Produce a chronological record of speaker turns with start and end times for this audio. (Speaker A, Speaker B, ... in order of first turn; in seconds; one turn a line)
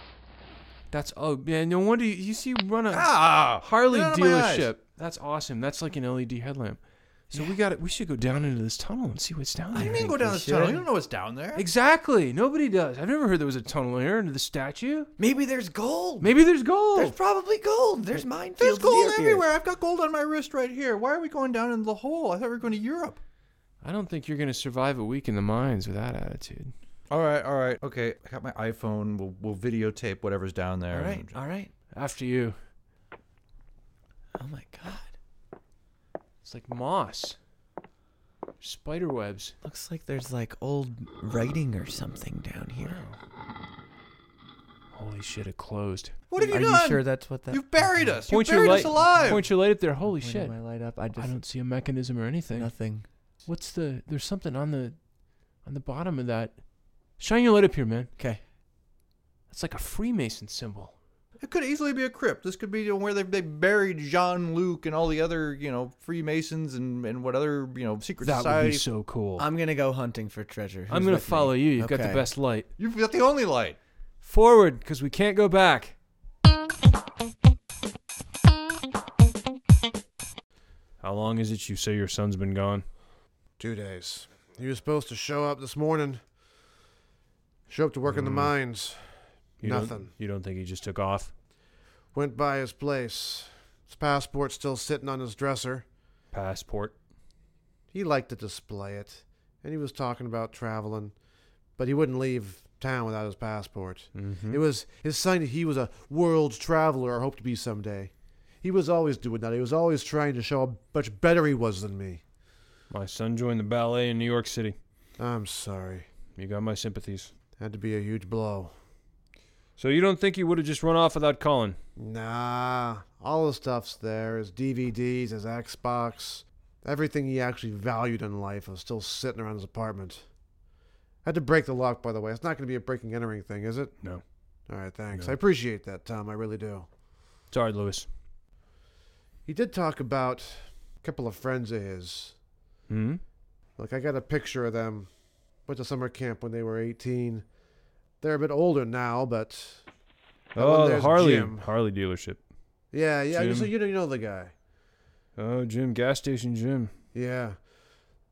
Speaker A: 0.9-10.0
Speaker B: 2.9-4.7
Speaker C: 7.3-7.6
Speaker C: 9.7-10.9
Speaker B: 9.7-11.6
Speaker A: 11.5-15.1
Speaker C: 15.2-16.3
Speaker A: 16.2-17.1
Speaker C: 16.9-19.4
Speaker B: 18.6-23.2
Speaker A: 23.8-26.7
Speaker B: 27.1-31.4
Speaker C: 30.9-31.7
Speaker A: 31.9-32.6
Speaker C: 34.4-35.1
Speaker A: 36.4-37.4
Speaker A: 38.6-39.5
Speaker C: 39.6-43.0
Speaker A: 42.8-43.2
Speaker A: 44.9-46.1
Speaker B: 46.3-49.5
Speaker C: 46.4-48.1
Speaker A: 48.3-50.5
Speaker C: 49.0-49.5
Speaker C: 50.1-51.4
Speaker A: 51.2-52.7
Speaker C: 52.5-53.1
Speaker A: 53.5-55.0
Speaker A: 55.6-58.1
Speaker A: 59.5-60.9
Speaker B: 61.4-68.8
Speaker A: 68.2-69.5
Speaker C: 69.4-72.3
Speaker A: 70.9-72.7
Speaker B: 72.8-73.8
Speaker A: 74.2-75.9
Speaker A: 81.0-82.8
Speaker D: 83.6-86.2
Speaker D: 87.7-90.1
Speaker A: 88.0-88.5
Speaker A: 89.6-91.3
Speaker D: 92.1-95.8
Speaker A: 96.3-96.9
Speaker D: 97.9-101.1
Speaker D: 101.8-112.2
Speaker A: 104.1-104.6
Speaker A: 112.9-114.8
Speaker D: 115.2-116.1
Speaker A: 116.3-117.3
Speaker D: 117.6-118.7
Speaker A: 119.8-121.8
Speaker D: 122.0-130.2
Speaker D: 131.2-133.9
Speaker D: 134.7-136.9
Speaker A: 137.5-138.1
Speaker D: 139.4-142.3
Speaker A: 142.9-143.2
Speaker D: 143.8-145.1
Speaker D: 145.7-147.4
Speaker D: 148.2-149.8
Speaker D: 150.5-151.7
Speaker A: 150.5-152.4
Speaker D: 152.9-154.5
Speaker A: 153.3-153.7
Speaker A: 155.3-156.9
Speaker D: 157.1-157.6